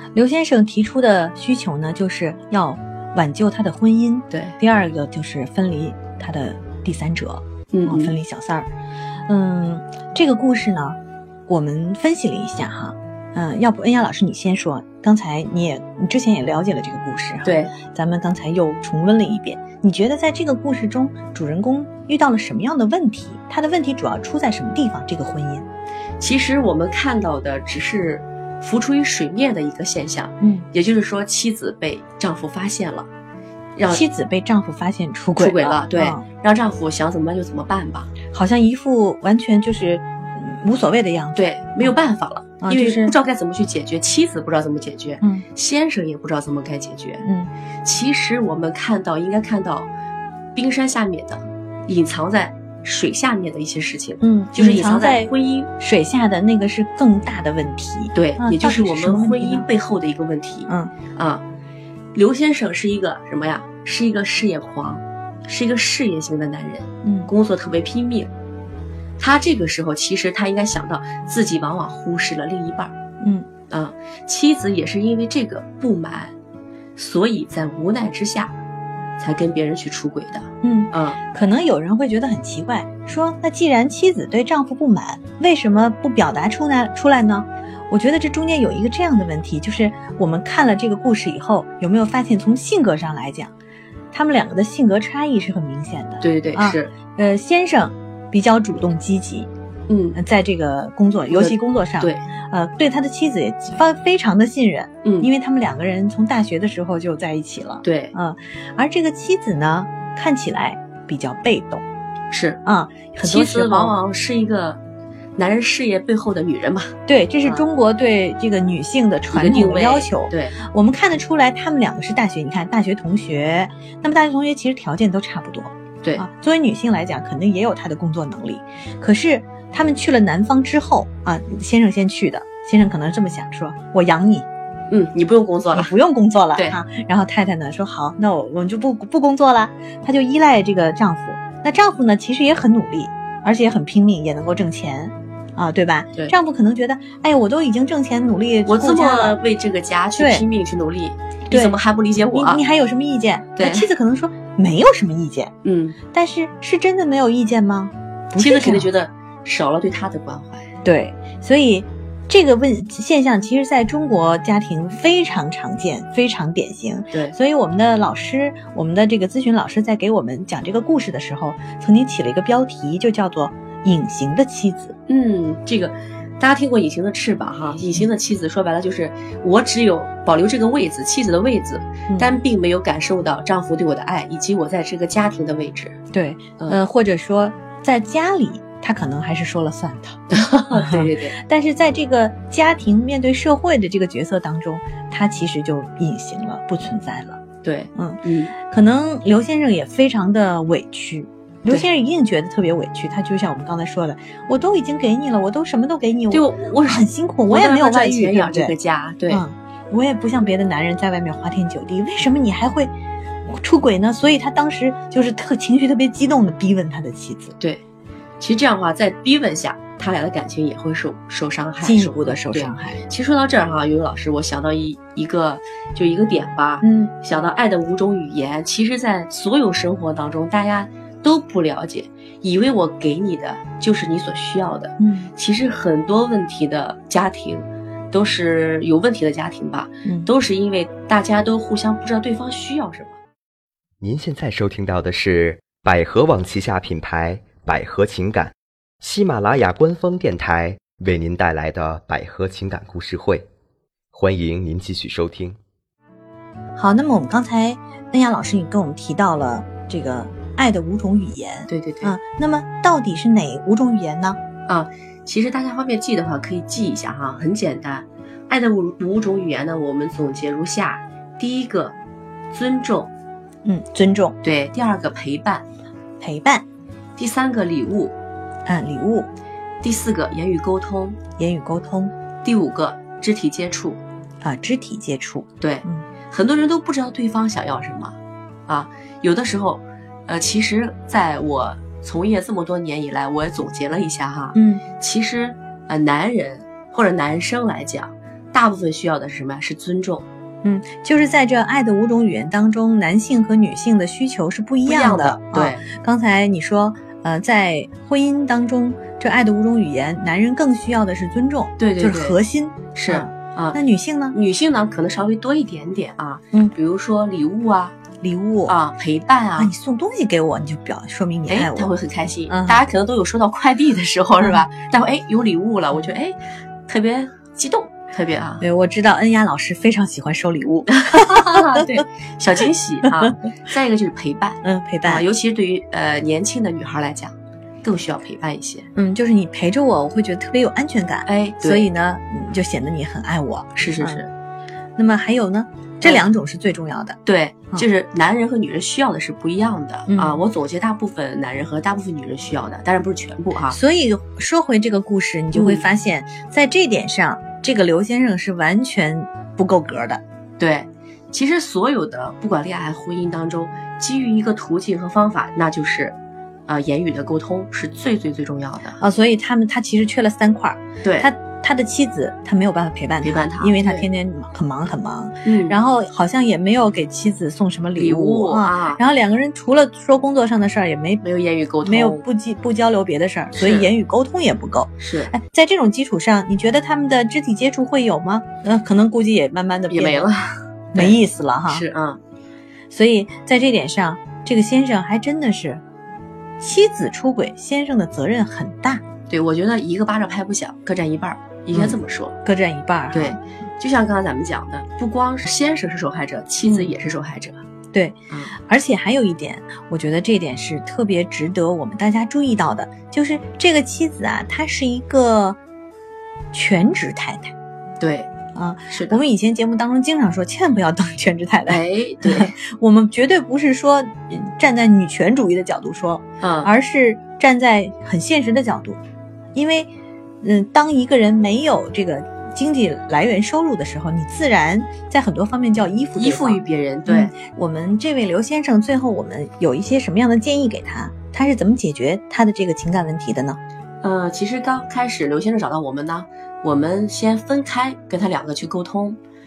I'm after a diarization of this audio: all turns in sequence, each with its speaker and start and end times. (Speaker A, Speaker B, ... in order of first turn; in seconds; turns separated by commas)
Speaker A: 0.1-8.7, Speaker B: 4.3-4.6, Speaker B: 7.7-8.2, Speaker A: 9.3-11.0, Speaker A: 11.5-25.7, Speaker B: 17.4-17.7, Speaker B: 26.2-33.1, Speaker A: 30.4-30.7, Speaker B: 33.8-34.0, Speaker A: 33.9-36.2, Speaker B: 35.4-38.1, Speaker A: 38.3-41.9, Speaker B: 41.4-47.3, Speaker A: 42.6-43.1, Speaker A: 47.2-47.5, Speaker B: 47.8-49.9, Speaker B: 50.5-55.7, Speaker A: 54.2-59.7, Speaker B: 58.1-61.4, Speaker B: 62.1-68.3, Speaker A: 67.0-67.3, Speaker B: 69.2-72.9, Speaker A: 73.2-73.5, Speaker B: 73.7-76.3, Speaker B: 77.0-78.5, Speaker B: 79.2-81.2, Speaker A: 80.6-93.5, Speaker A: 94.1-99.5, Speaker B: 96.2-96.9, Speaker B: 99.9-100.2, Speaker A: 100.2-111.8, Speaker B: 101.3-102.2, Speaker B: 105.0-105.3, Speaker B: 107.8-108.1, Speaker B: 112.3-112.6, Speaker A: 112.7-114.0, Speaker B: 113.2-114.8, Speaker B: 115.4-117.6, Speaker A: 117.1-134.5, Speaker B: 119.3-120.5, Speaker B: 134.9-135.9, Speaker A: 135.7-149.4, Speaker B: 148.7-152.6, Speaker A: 150.2-150.4, Speaker A: 151.5-151.8, Speaker A: 152.3-155.5, Speaker B: 153.6-153.9, Speaker B: 155.6-156.0, Speaker A: 156.1-158.9, Speaker B: 158.4-160.7, Speaker A: 160.8-174.9, Speaker B: 175.1-185.9, Speaker A: 186.1-197.4, Speaker B: 190.3-191.4, Speaker B: 197.6-198.5, Speaker A: 197.9-208.7, Speaker B: 206.3-209.4, Speaker A: 209.3-212.9, Speaker A: 213.5-217.6, Speaker B: 218.4-243.2, Speaker A: 221.8-223.0, Speaker A: 226.8-227.1, Speaker A: 235.0-235.3, Speaker C: 244.0-253.5, Speaker C: 254.1-255.6, Speaker A: 256.8-264.4, Speaker B: 261.7-262.2, Speaker B: 264.7-272.0, Speaker B: 272.5-273.1, Speaker A: 273.6-274.4, Speaker B: 274.4-275.7, Speaker A: 276.2-276.6, Speaker B: 277.2-278.1, Speaker A: 278.7-279.3, Speaker B: 279.8-281.2, Speaker A: 281.4-282.1, Speaker B: 282.4-284.0, Speaker A: 284.4-286.1, Speaker B: 285.6-288.2, Speaker B: 288.7-300.3, Speaker A: 294.5-294.8, Speaker A: 300.6-314.4, Speaker B: 304.9-305.8, Speaker B: 311.8-312.4, Speaker B: 312.9-313.8, Speaker B: 314.3-317.9, Speaker A: 318.2-318.8, Speaker B: 318.7-319.7, Speaker A: 319.6-321.9, Speaker B: 321.5-328.7, Speaker A: 322.5-322.9, Speaker A: 328.6-332.0, Speaker B: 330.9-338.9, Speaker A: 334.6-335.2, Speaker A: 338.9-344.2, Speaker B: 341.3-341.9, Speaker B: 343.8-344.3, Speaker A: 345.0-347.2, Speaker B: 346.0-346.3, Speaker B: 347.3-353.8, Speaker A: 350.1-350.4, Speaker A: 353.7-360.2, Speaker B: 355.5-355.8, Speaker B: 360.6-366.2, Speaker B: 366.7-369.0, Speaker A: 369.0-381.2, Speaker B: 371.0-371.3, Speaker B: 373.2-374.1, Speaker B: 375.4-375.8, Speaker B: 377.9-379.0, Speaker B: 381.2-382.2, Speaker A: 381.8-390.3, Speaker B: 383.6-383.9, Speaker B: 385.0-385.3, Speaker B: 389.9-392.2, Speaker A: 390.9-391.9, Speaker A: 392.9-395.8, Speaker A: 396.6-399.0, Speaker B: 399.3-402.4, Speaker A: 401.7-403.4, Speaker B: 403.1-407.6, Speaker A: 407.9-415.6, Speaker A: 416.5-417.5, Speaker B: 418.0-418.3, Speaker A: 418.6-429.0, Speaker B: 418.9-419.2, Speaker B: 421.7-422.5, Speaker B: 426.4-426.7, Speaker A: 429.6-429.9, Speaker A: 430.4-443.6, Speaker B: 436.1-437.3, Speaker B: 444.0-449.2